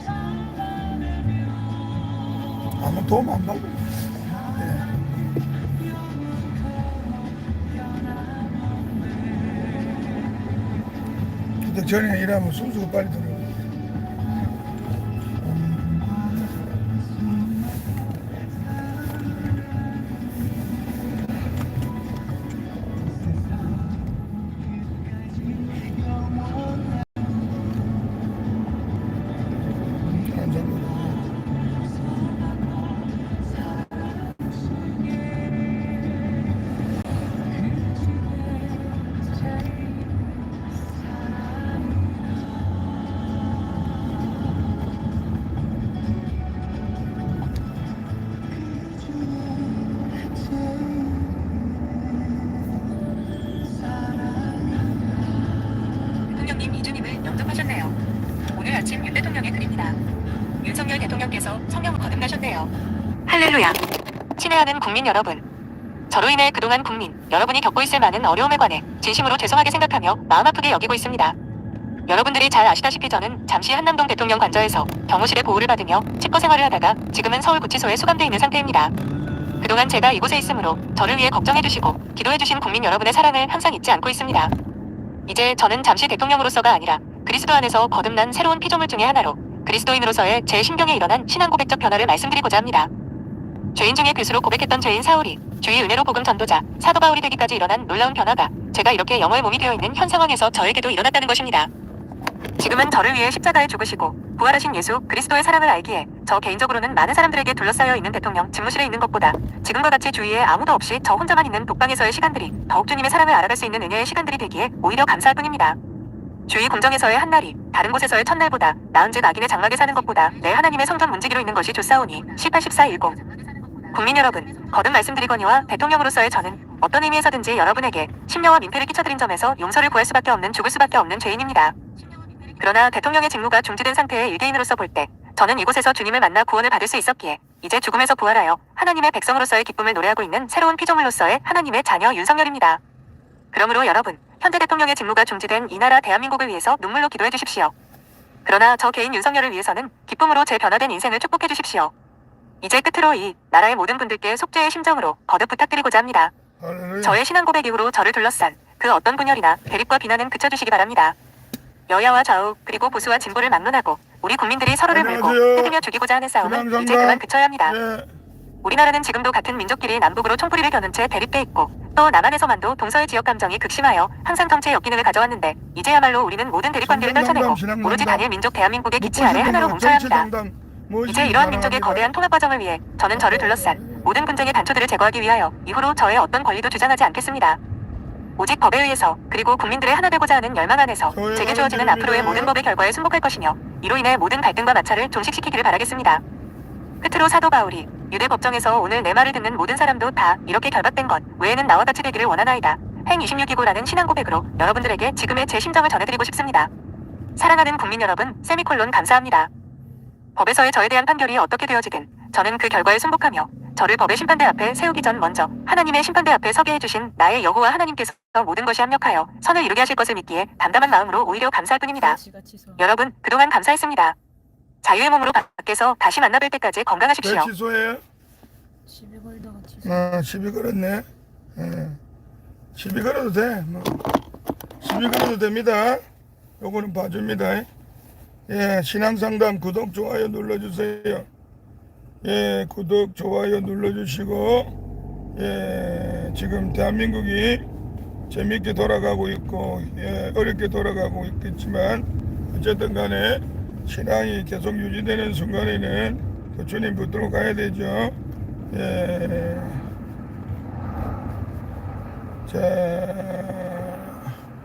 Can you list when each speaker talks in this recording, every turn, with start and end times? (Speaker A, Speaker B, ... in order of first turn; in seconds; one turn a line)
Speaker A: 2.8-3.9
Speaker A: 4.5-4.9
Speaker A: 11.6-13.5
Speaker A: 30.1-31.3
Speaker B: 56.3-58.0
Speaker B: 58.5-60.0
Speaker B: 60.6-62.7
Speaker B: 63.3-63.8
Speaker B: 64.4-65.4
Speaker B: 66.1-71.4
Speaker B: 72.1-78.9
Speaker B: 79.6-84.5
Speaker B: 85.3-92.9
Speaker B: 93.8-101.7
Speaker B: 102.6-115.8
Speaker B: 116.5-123.2
Speaker B: 123.9-131.8
Speaker B: 132.6-142.8
Speaker B: 143.5-147.7
Speaker B: 148.4-151.9
Speaker B: 152.6-156.3
Speaker A: 156.6-157.2
Speaker B: 157.0-161.2
Speaker B: 161.9-167.7
Speaker C: 163.1-163.7
Speaker A: 164.9-165.8
Speaker A: 166.4-168.1
Speaker B: 168.6-180.3
Speaker A: 176.8-178.3
Speaker A: 179.0-182.1
Speaker B: 181.1-187.6
Speaker A: 183.2-184.1
Speaker B: 188.4-196.2
Speaker A: 191.1-192.5
Speaker B: 197.0-206.7
Speaker B: 207.4-209.5
Speaker B: 210.4-222.2
Speaker C: 221.9-222.9
Speaker B: 222.8-224.2
Speaker B: 224.8-227.5
Speaker A: 227.2-228.0
Speaker C: 228.9-230.1
Speaker A: 229.8-232.0
Speaker A: 232.8-234.1
Speaker A: 234.8-236.1
Speaker A: 236.6-237.7
Speaker A: 238.5-241.3
Speaker A: 242.2-244.7
Speaker A: 245.3-247.6
Speaker A: 248.3-258.2
Speaker A: 258.7-259.9
Speaker A: 262.5-264.2